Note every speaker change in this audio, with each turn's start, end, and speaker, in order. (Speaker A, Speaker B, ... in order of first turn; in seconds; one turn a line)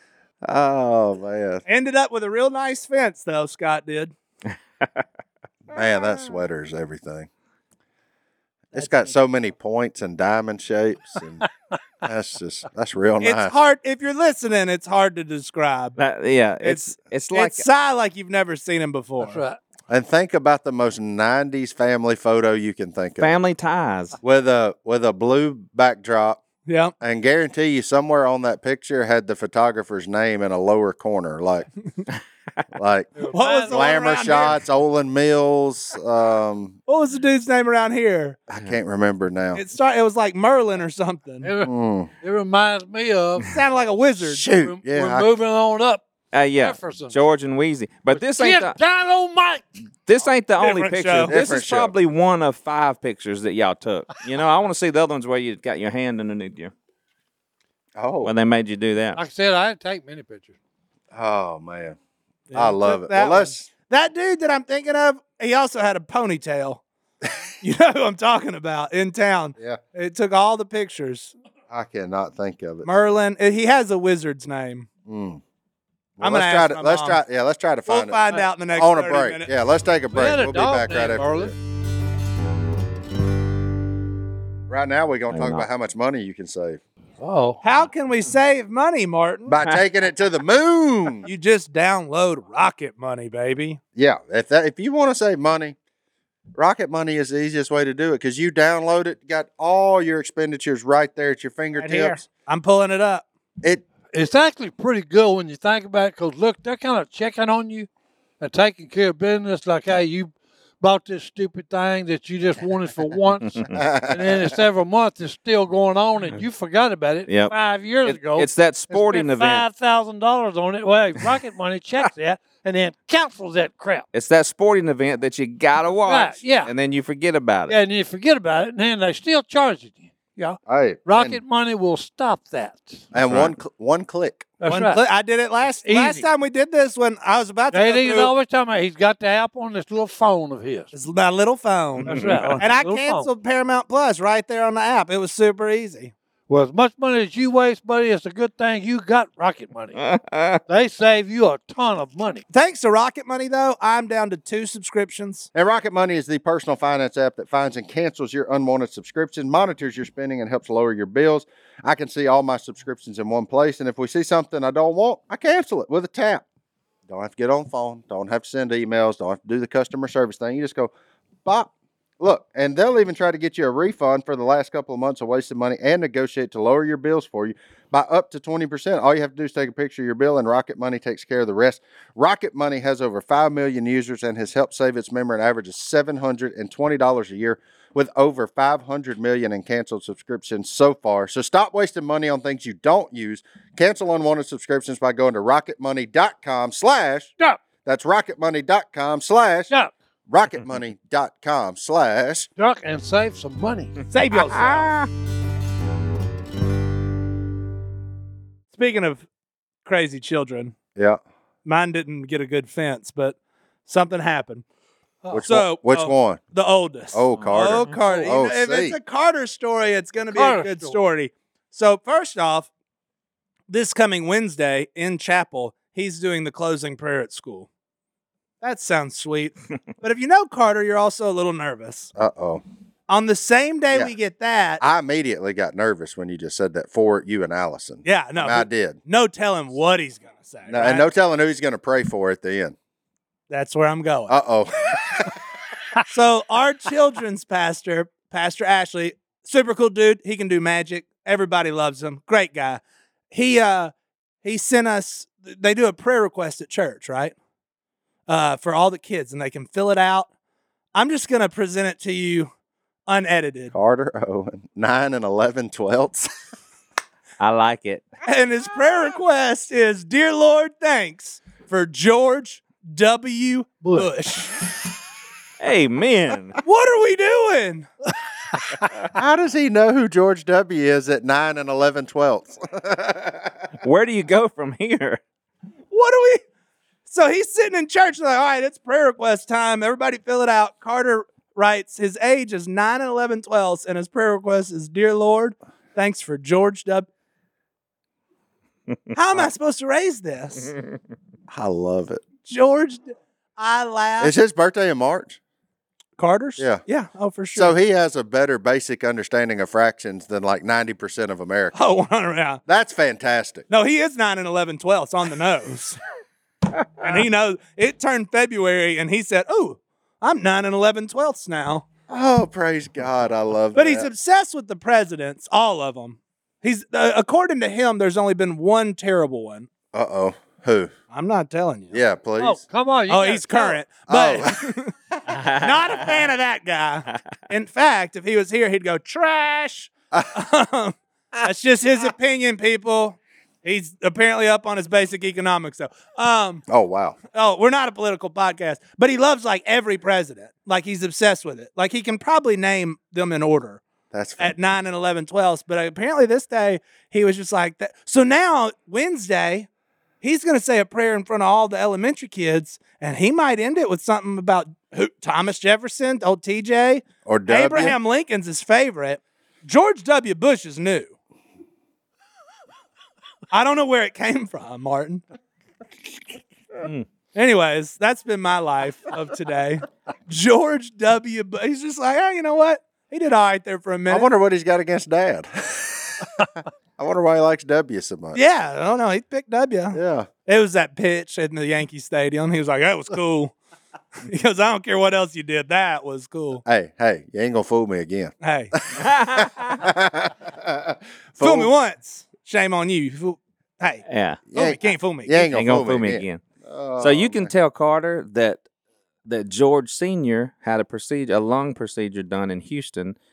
Speaker A: 0.4-1.6
Speaker B: 1.7-4.1
Speaker A: 5.7-7.3
Speaker A: 8.7-11.5
Speaker A: 12.0-13.5
Speaker B: 13.2-16.0
Speaker C: 16.0-17.6
Speaker B: 16.6-19.4
Speaker D: 19.2-19.6
Speaker A: 19.9-23.4
Speaker C: 23.2-24.2
Speaker A: 24.2-26.4
Speaker B: 26.7-26.9
Speaker A: 27.0-31.7
Speaker A: 32.7-33.1
Speaker D: 33.2-33.8
Speaker B: 33.3-34.6
Speaker A: 33.7-36.8
Speaker B: 36.9-38.4
Speaker A: 38.5-39.6
Speaker B: 39.5-41.5
Speaker D: 41.4-43.5
Speaker A: 41.6-42.1
Speaker B: 43.5-44.5
Speaker A: 44.2-45.3
Speaker D: 44.6-47.2
Speaker C: 46.3-48.8
Speaker D: 48.1-49.7
Speaker C: 50.1-56.7
Speaker B: 50.6-51.4
Speaker A: 51.3-51.9
Speaker A: 58.0-58.3
Speaker C: 58.2-59.2
Speaker D: 59.1-60.6
Speaker A: 61.1-62.0
Speaker B: 62.5-66.8
Speaker A: 62.5-63.7
Speaker B: 67.6-71.3
Speaker A: 71.7-72.9
Speaker B: 72.8-74.9
Speaker A: 75.1-75.4
Speaker A: 76.2-81.5
Speaker B: 76.2-77.2
Speaker B: 77.9-79.5
Speaker D: 80.1-81.5
Speaker A: 84.7-86.8
Speaker C: 85.3-85.6
Speaker D: 87.2-87.6
Speaker B: 87.6-89.5
Speaker A: 89.5-91.3
Speaker B: 91.2-93.8
Speaker A: 94.0-95.8
Speaker A: 96.5-102.2
Speaker B: 101.8-103.2
Speaker D: 104.1-107.9
Speaker D: 108.4-124.1
Speaker A: 113.7-114.5
Speaker C: 117.3-119.6
Speaker C: 124.1-127.8
Speaker D: 126.1-126.7
Speaker D: 127.7-133.1
Speaker A: 130.7-131.4
Speaker A: 133.1-134.5
Speaker C: 133.2-133.5
Speaker D: 134.6-135.0
Speaker B: 134.7-138.3
Speaker D: 135.8-136.3
Speaker D: 137.7-140.9
Speaker B: 140.9-146.1
Speaker C: 142.0-142.6
Speaker D: 142.1-143.3
Speaker D: 146.5-150.0
Speaker C: 150.0-150.6
Speaker D: 150.7-152.4
Speaker B: 152.5-155.5
Speaker A: 155.5-166.4
Speaker A: 167.1-170.9
Speaker A: 171.4-197.3
Speaker A: 197.8-199.7
Speaker A: 200.3-202.5
Speaker D: 202.6-204.0
Speaker B: 204.1-204.9
Speaker C: 204.3-205.1
Speaker B: 208.7-209.2
Speaker B: 209.8-210.7
Speaker A: 210.9-211.2
Speaker B: 211.6-214.6
Speaker D: 215.2-215.5
Speaker A: 215.3-216.4
Speaker B: 215.5-222.7
Speaker A: 217.1-219.0
Speaker D: 220.3-221.0
Speaker B: 223.7-227.7
Speaker B: 228.6-232.1
Speaker A: 232.2-232.6
Speaker B: 233.1-234.8
Speaker A: 234.8-239.0
Speaker B: 238.1-241.1
Speaker A: 240.7-242.8
Speaker B: 243.5-244.4
Speaker A: 244.3-245.3
Speaker B: 246.0-253.9
Speaker B: 254.4-257.4
Speaker B: 258.3-260.3
Speaker B: 260.9-262.5
Speaker B: 263.1-263.8
Speaker A: 263.7-266.3
Speaker C: 267.4-268.0
Speaker B: 268.3-274.8
Speaker C: 275.6-276.6
Speaker B: 276.6-277.9
Speaker A: 279.1-283.7
Speaker C: 283.8-285.2
Speaker B: 285.9-286.4
Speaker B: 287.1-297.1
Speaker B: 299.1-300.7
Speaker A: 301.5-302.2
Speaker B: 302.5-304.4
Speaker A: 304.2-305.4
Speaker B: 306.2-307.7
Speaker A: 306.6-306.8
Speaker A: 307.6-311.8
Speaker B: 311.7-312.6
Speaker A: 312.7-313.7
Speaker B: 313.7-316.0
Speaker B: 317.0-321.9
Speaker A: 322.1-324.1
Speaker B: 323.7-329.7
Speaker A: 329.9-330.9
Speaker B: 331.1-332.0
Speaker A: 331.9-332.6
Speaker D: 332.4-333.8
Speaker B: 333.1-334.9
Speaker A: 334.1-334.7
Speaker C: 335.3-336.3
Speaker B: 335.6-346.6
Speaker A: 346.7-347.2
Speaker B: 347.3-353.8
Speaker A: 354.1-354.6
Speaker B: 354.4-359.7
Speaker B: 360.2-371.1
Speaker A: 367.3-368.0
Speaker B: 373.5-375.2
Speaker B: 377.4-384.3
Speaker A: 384.1-388.4
Speaker B: 388.3-393.5
Speaker A: 389.9-390.3
Speaker B: 394.2-396.6
Speaker A: 396.6-401.7
Speaker B: 398.4-398.7
Speaker C: 398.9-399.9
Speaker B: 401.4-405.6
Speaker C: 404.1-404.4
Speaker A: 404.5-407.5
Speaker C: 405.5-406.4
Speaker C: 407.0-408.6
Speaker C: 409.3-413.2